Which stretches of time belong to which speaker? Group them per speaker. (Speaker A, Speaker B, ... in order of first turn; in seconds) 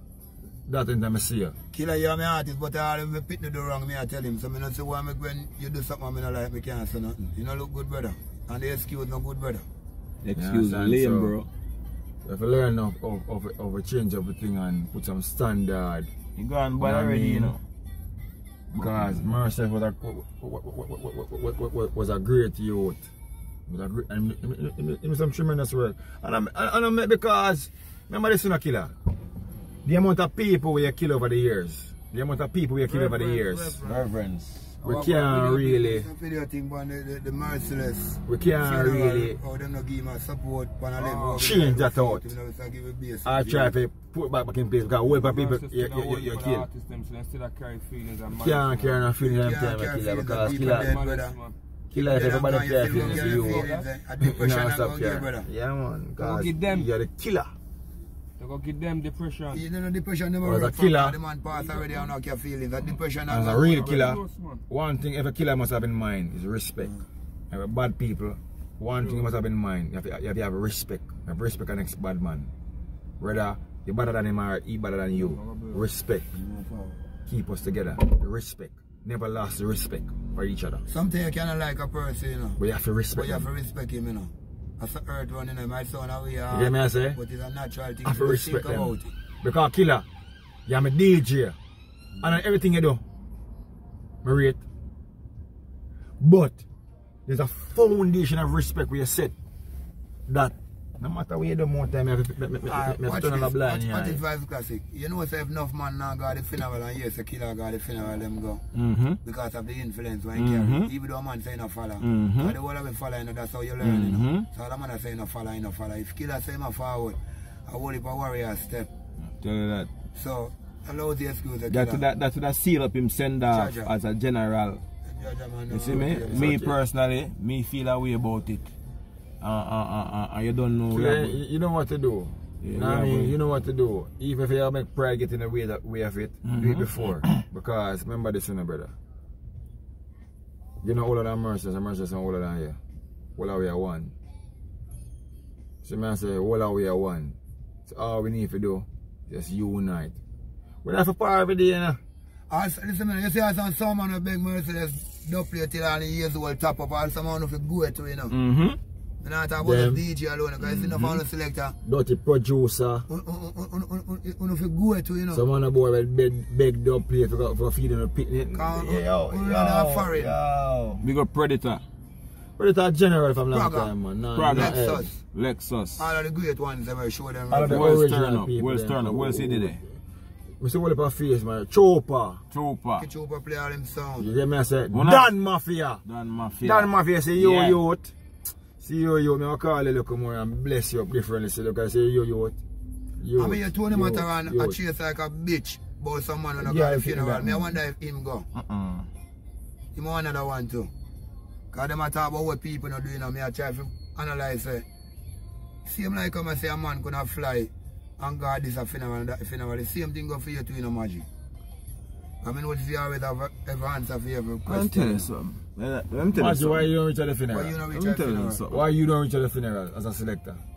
Speaker A: 0.7-1.5, 10.3-11.4, 12.2-16.1, 16.8-17.6, 18.7-23.1, 23.7-28.9, 29.8-33.8, 34.8-36.0, 38.2-39.4, 41.4-42.3, 43.2-46.7, 48.3-50.9, 51.9-53.6, 54.2-57.5, 60.4-61.2, 63.3-67.0, 67.5-72.5, 73.2-76.3, 77.2-80.8, 82.6-83.5, 86.5-87.2, 88.0-90.0, 90.7-91.6, 92.2-93.0, 94.2-94.6, 96.2-96.6, 97.2-99.3, 100.3-104.2, 126.2-126.8, 130.9-138.9, 140.8-142.8, 143.4-144.1, 145.8-150.2, 150.8-152.0, 159.6-160.0, 161.8-163.1, 165.3-171.1, 172.6-175.1, 177.5-179.8, 180.6-182.4, 184.2-186.0, 186.6-188.1, 188.8-192.6, 193.2-194.8, 196.6-197.8, 216.3-217.8, 218.7-220.6
Speaker B: 1.7-9.7, 34.8-43.7, 49.2-51.4, 52.0-55.5, 59.5-64.1, 75.2-75.8, 76.3-77.1, 80.9-82.6, 83.1-89.1, 102.6-108.6, 109.2-118.9, 120.1-122.0, 123.5-123.9, 125.0-126.6, 152.5-158.3, 159.2-161.8, 163.1-165.4, 168.5-170.4, 173.5-173.9, 174.5-175.2, 176.0-178.0, 183.0-184.3, 193.3-198.5, 199.9-200.9, 201.7-204.8, 205.8-211.3, 212.4-215.3, 217.5-218.6
Speaker C: 10.2-11.5, 16.4-17.6, 18.8-19.1, 33.8-34.8, 108.7-109.2, 110.3-110.9, 112.0-112.5, 113.8-114.5, 119.4-119.9, 121.7-124.8, 125.7-128.7, 129.4-131.4, 132.6-133.3, 136.4-137.4, 158.3-158.8, 160.6-161.2, 171.0-171.8, 174.3-174.8, 175.3-176.2, 177.6-179.8, 182.5-183.1, 184.9-185.3, 186.0-187.8, 198.5-199.1, 214.7-216.9, 217.9-218.8
Speaker D: 32.9-34.0, 41.0-41.4, 45.0-49.0, 50.5-51.5, 52.9-53.9, 56.2-56.9, 58.4-59.6, 63.7-64.6